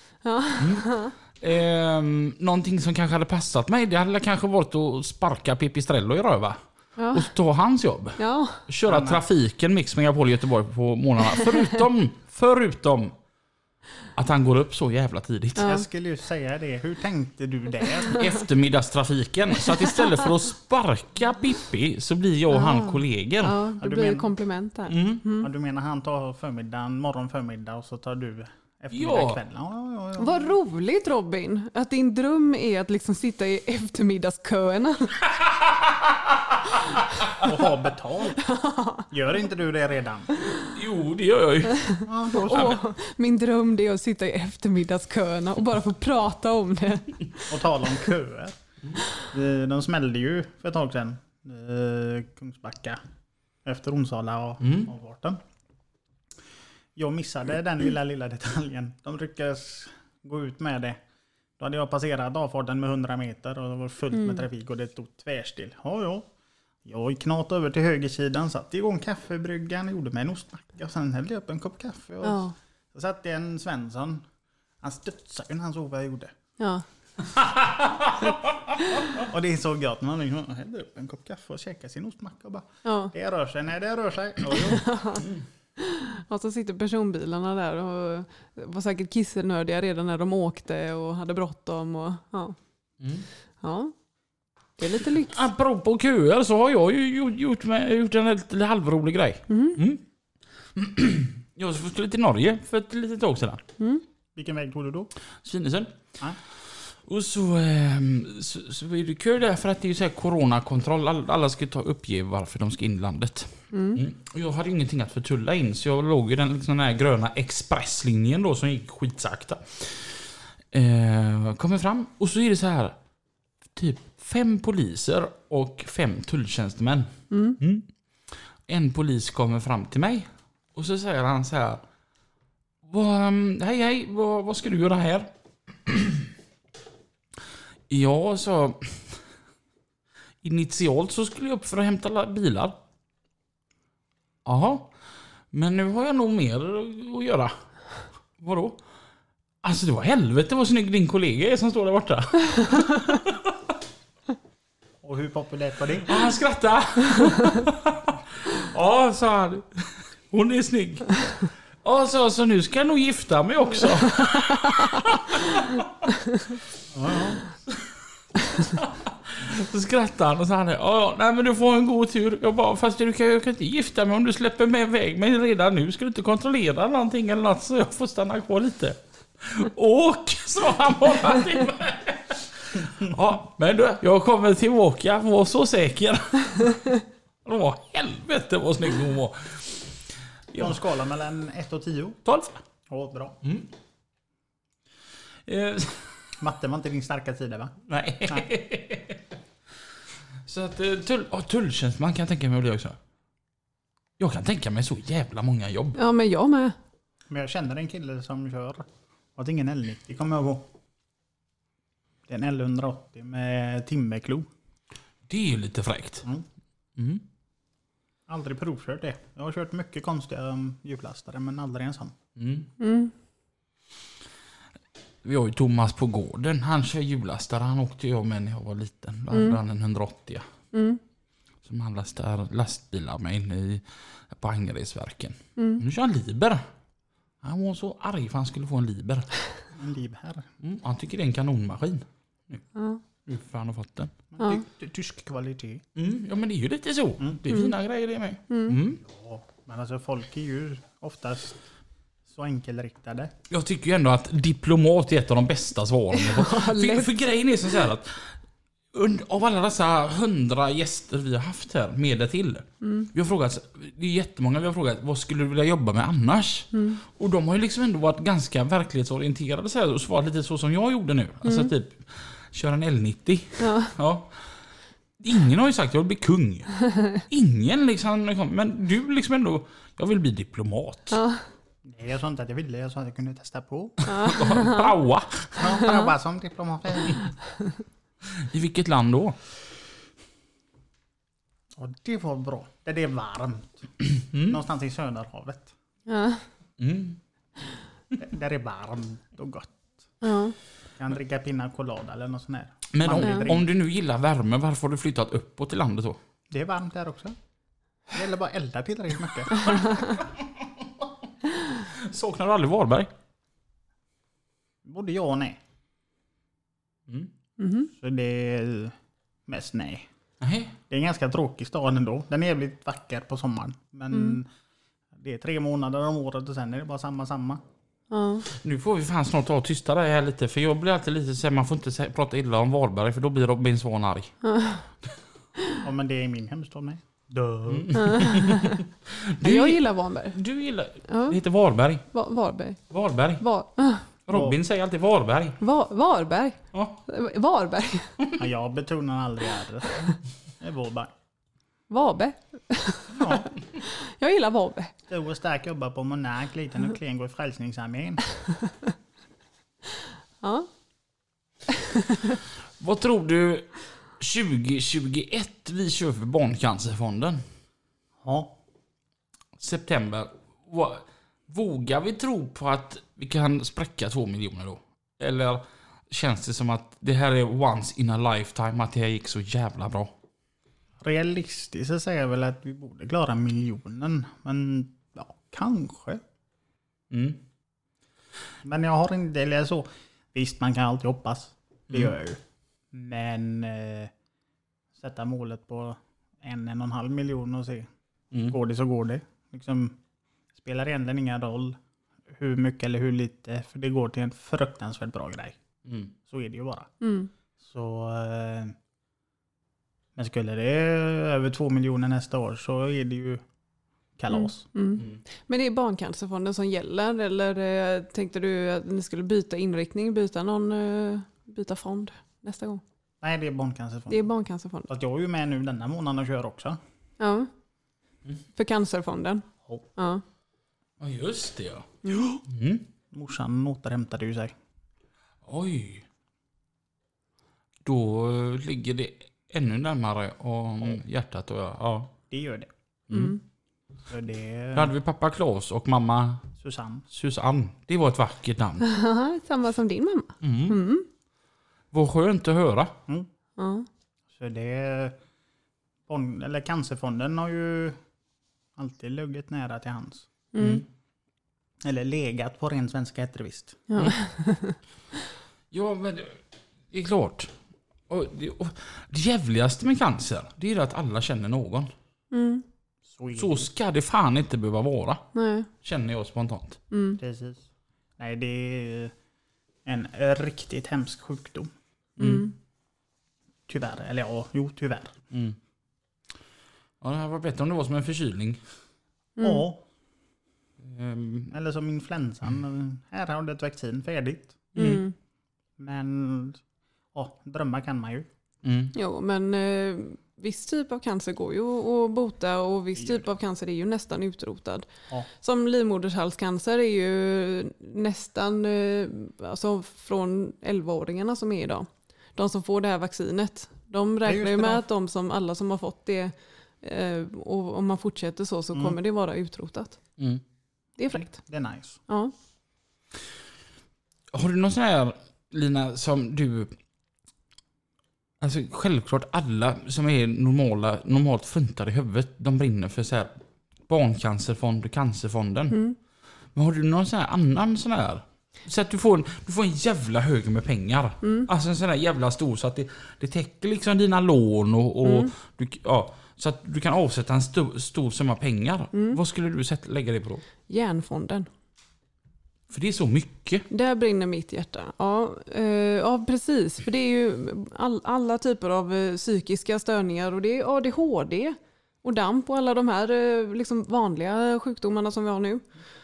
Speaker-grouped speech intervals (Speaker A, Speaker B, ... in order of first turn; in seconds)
Speaker A: 0.2-1.1, 7.0-7.3, 8.2-8.7, 15.6-15.8, 22.5-25.5, 30.2-35.2, 38.4-39.0, 41.9-47.9, 64.1-64.4, 72.2-72.5, 76.6-76.8, 82.8-83.1, 84.7-85.2, 85.8-92.5, 93.6-93.9, 94.8-95.4, 99.5-99.8, 113.7-114.0, 127.3-127.6, 205.9-206.8, 222.8-223.1, 229.3-229.6, 230.7-231.0, 235.6-235.8, 242.7-243.0, 248.5-248.8, 256.1-257.1, 262.8-263.1, 266.7-267.0, 271.4-271.7, 273.6-273.9, 281.1-281.4, 284.1-284.9, 296.1-296.4, 300.2-300.6, 317.6-317.9, 324.1-324.4, 328.1-328.4, 334.4-334.8, 337.9-338.8, 339.4-340.4, 341.1-341.4, 342.1-342.8, 343.4-344.1, 345.6-348.2, 351.9-354.9, 360.4-360.7, 361.9-362.3, 407.0-407.3, 414.3-422.8, 424.1-424.9, 427.2-427.5, 428.6-430.2, 432.1-432.4, 443.1-443.4, 448.8-451.1, 453.6-453.9, 460.5-460.8, 463.9-464.8, 472.3-472.6, 475.3-475.7, 476.9-477.2, 482.2-482.5, 489.4-489.6, 494.8-495.1, 498.9-520.0, 521.0-521.4, 522.1-522.3, 535.7-536.0, 541.2-541.5, 545.0-545.3, 548.9-549.2, 550.7-551.5, 553.7-565.7
Speaker B: 0.6-0.9, 1.4-6.6, 7.1-13.1, 14.2-15.8, 18.1-23.6, 24.9-25.2, 28.9-29.4, 35.4-36.3, 40.5-42.8, 54.6-54.9, 77.3-78.1, 93.0-93.3, 95.3-100.0, 100.7-103.6, 105.4-123.0, 123.7-131.8, 132.8-136.3, 137.9-139.2, 140.4-142.8, 144.4-144.9, 145.5-147.6, 148.4-148.8, 149.6-153.6, 156.0-161.3, 161.8-165.9, 168.5-186.9, 187.4-189.9, 190.5-190.8, 192.2-192.6, 193.4-193.7, 195.4-196.1, 197.9-199.2, 200.4-203.0, 204.2-206.0, 215.3-216.2, 216.9-217.2, 222.3-222.7, 225.2-230.5, 231.6-236.6, 237.4-239.3, 240.6-242.6, 243.2-244.1, 245.9-249.0, 253.5-258.4, 258.9-274.5, 275.2-281.2, 284.2-285.8, 288.3-289.4, 294.3-294.6, 296.8-297.2, 302.9-306.2, 311.8-313.1, 320.4-320.7, 328.5-334.3, 337.7-342.1, 342.9-343.4, 344.3-345.6, 346.7-347.0, 362.8-367.4, 369.6-380.1, 387.1-387.4, 405.9-406.1, 431.0-432.9, 435.4-436.1, 437.8-442.1, 443.1-443.4, 444.7-446.5, 447.1-448.9, 450.4-450.8, 451.9-452.9, 460.6-460.8, 465.7-467.5, 468.1-471.9, 473.3-475.2, 475.8-476.8, 482.2-482.5, 485.3-485.6, 487.0-488.6, 490.8-491.5, 494.8-495.0, 498.6-498.9, 524.3-526.7, 528.4-535.8, 536.5-550.4, 552.7-553.6
Speaker C: 8.8-9.2, 15.6-18.2, 23.8-24.3, 25.4-30.6, 37.4-38.4, 39.1-40.3, 42.0-42.8, 47.5-48.6, 49.1-53.0, 53.6-55.4, 57.0-61.0, 61.6-66.3, 66.8-72.4, 72.9-74.2, 74.8-76.3, 79.2-84.9, 104.3-105.1, 155.0-156.1, 166.9-167.4, 190.6-192.2, 192.9-193.4, 196.4-197.7, 207.3-210.7, 212.3-214.5, 218.3-222.1, 239.7-240.5, 244.3-245.8, 249.0-251.6, 252.3-253.3, 281.8-284.0, 285.6-287.2, 291.8-293.9, 294.4-295.7, 298.2-299.8, 301.0-303.6, 306.5-307.4, 308.1-309.8, 314.8-315.6, 317.9-318.9, 319.5-320.1, 320.9-324.5, 325.1-327.6, 335.8-338.2, 344.3-344.6, 348.4-350.0, 350.6-351.1, 353.1-353.5, 355.1-358.2, 368.2-368.6, 381.0-386.2, 388.6-392.4, 392.9-394.1, 395.0-397.9, 398.4-399.9, 400.6-401.8, 402.3-405.6, 406.3-406.9, 407.6-408.7, 410.1-413.4, 414.2-414.6, 423.2-424.2, 424.9-426.8, 433.1-434.5, 442.3-442.7, 444.1-444.9, 446.6-447.0, 454.3-455.2, 456.1-458.0, 458.8-460.3, 461.8-463.8, 473.1-473.7, 477.2-477.6, 478.2-479.1, 479.8-481.7, 483.7-485.1, 489.4-489.8, 491.5-494.6, 495.8-496.6, 497.1-498.3, 503.0-503.2, 514.2-514.8, 521.1-522.0